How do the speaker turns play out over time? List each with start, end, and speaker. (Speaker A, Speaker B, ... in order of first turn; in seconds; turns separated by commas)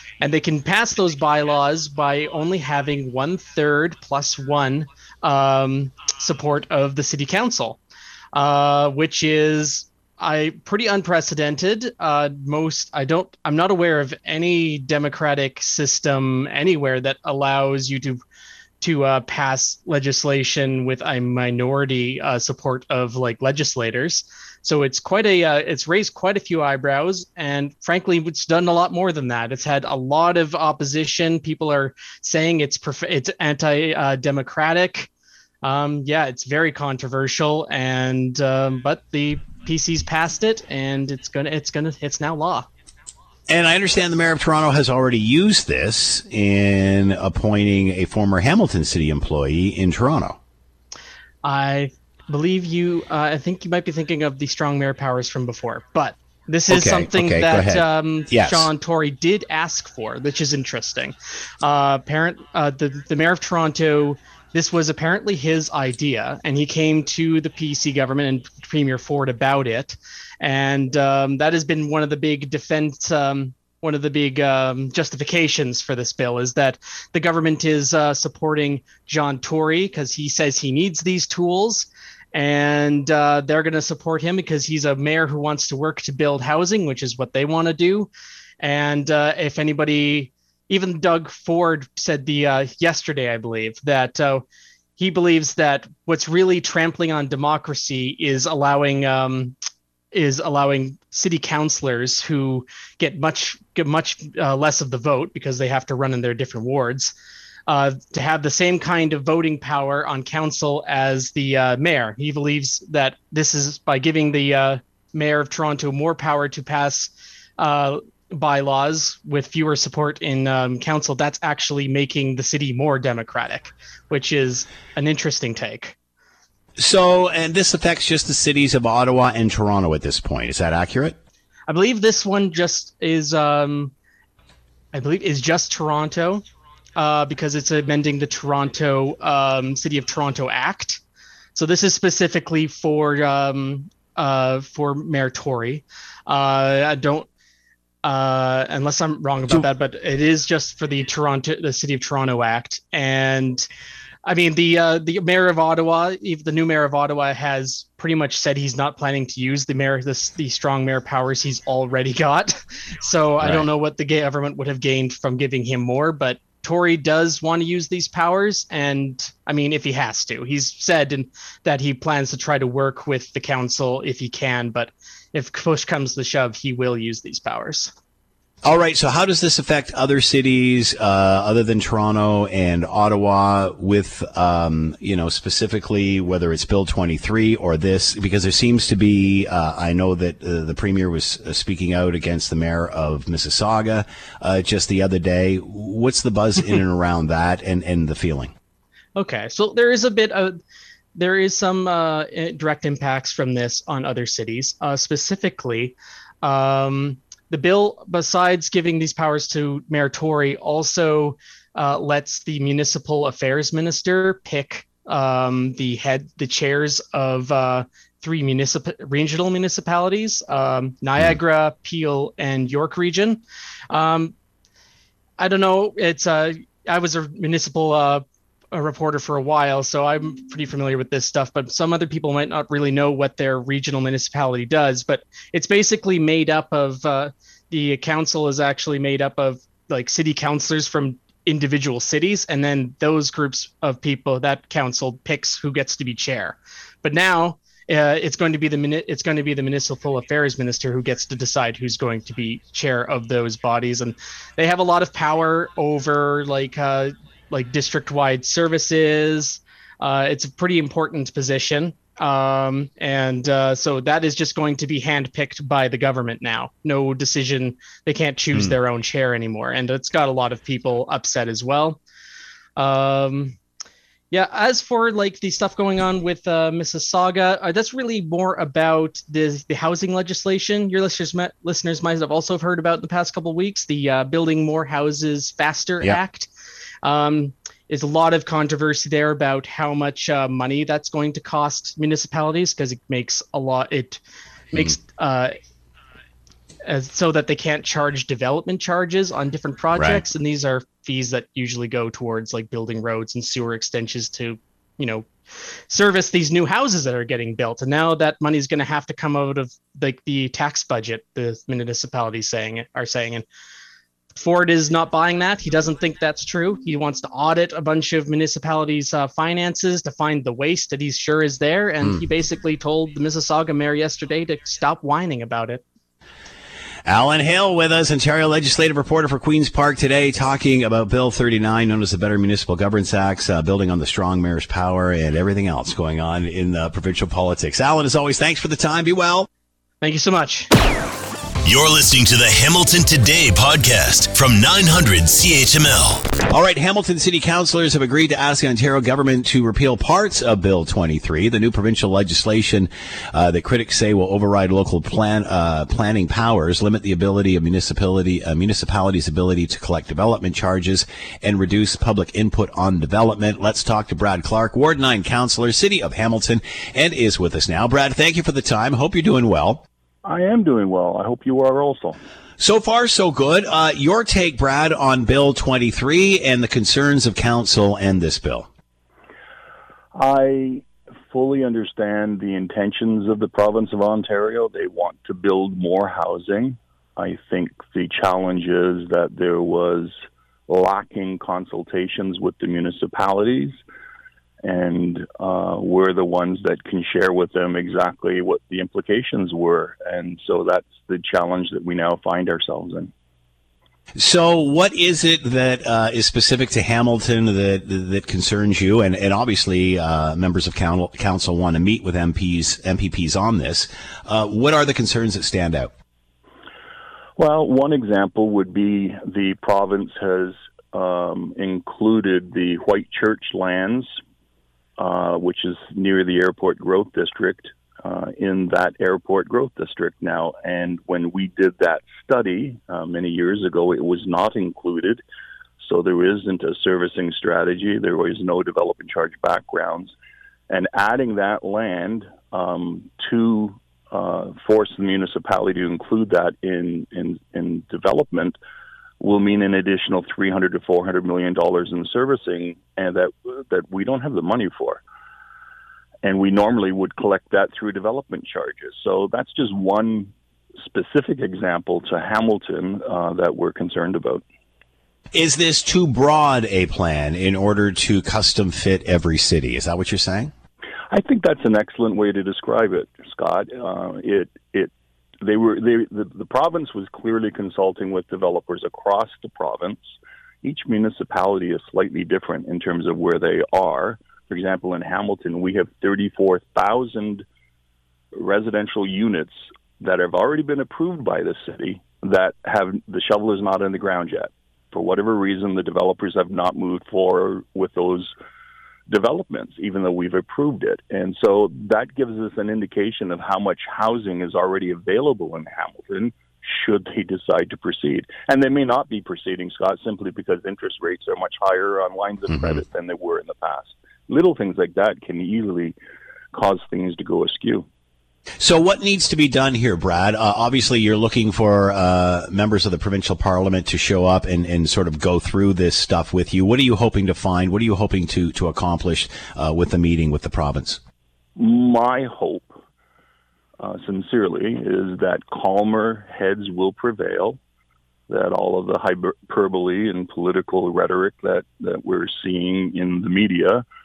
Speaker A: 0.2-7.8, Speaker A: 8.3-18.2, Speaker A: 18.8-35.1, Speaker A: 35.6-42.7, Speaker B: 43.5-50.4, Speaker A: 51.4-88.1, Speaker B: 56.7-58.7, Speaker A: 88.6-94.5, Speaker A: 95.0-99.5, Speaker A: 100.1-107.1, Speaker A: 107.7-126.0, Speaker B: 126.8-131.2, Speaker A: 131.7-133.9, Speaker A: 134.9-136.4, Speaker A: 137.0-141.0, Speaker A: 141.6-147.3, Speaker A: 148.0-153.7, Speaker A: 154.2-177.9, Speaker B: 163.4-163.7, Speaker B: 178.6-198.5, Speaker A: 199.2-200.6, Speaker A: 201.2-224.3, Speaker A: 225.4-272.0, Speaker A: 272.8-273.6, Speaker A: 274.3-286.5, Speaker A: 287.0-294.2, Speaker A: 294.7-295.6, Speaker A: 296.9-305.3, Speaker B: 299.9-300.3, Speaker A: 305.9-313.4, Speaker A: 314.4-325.8, Speaker B: 327.1-339.5, Speaker A: 340.0-340.7, Speaker C: 341.7-346.3, Speaker B: 346.5-369.8, Speaker D: 370.2-372.2, Speaker B: 372.6-378.7, Speaker D: 380.1-393.8, Speaker D: 394.6-403.1, Speaker B: 404.2-415.9, Speaker D: 417.4-424.1, Speaker D: 425.0-435.2, Speaker D: 435.8-440.1, Speaker D: 440.7-448.6, Speaker D: 449.2-455.0, Speaker D: 456.2-464.4, Speaker B: 465.3-470.5, Speaker D: 471.1-487.4, Speaker D: 488.3-498.3, Speaker D: 499.1-516.0, Speaker D: 516.5-517.9, Speaker B: 518.6-531.0, Speaker D: 531.6-532.8, Speaker D: 533.8-537.6, Speaker D: 538.3-543.9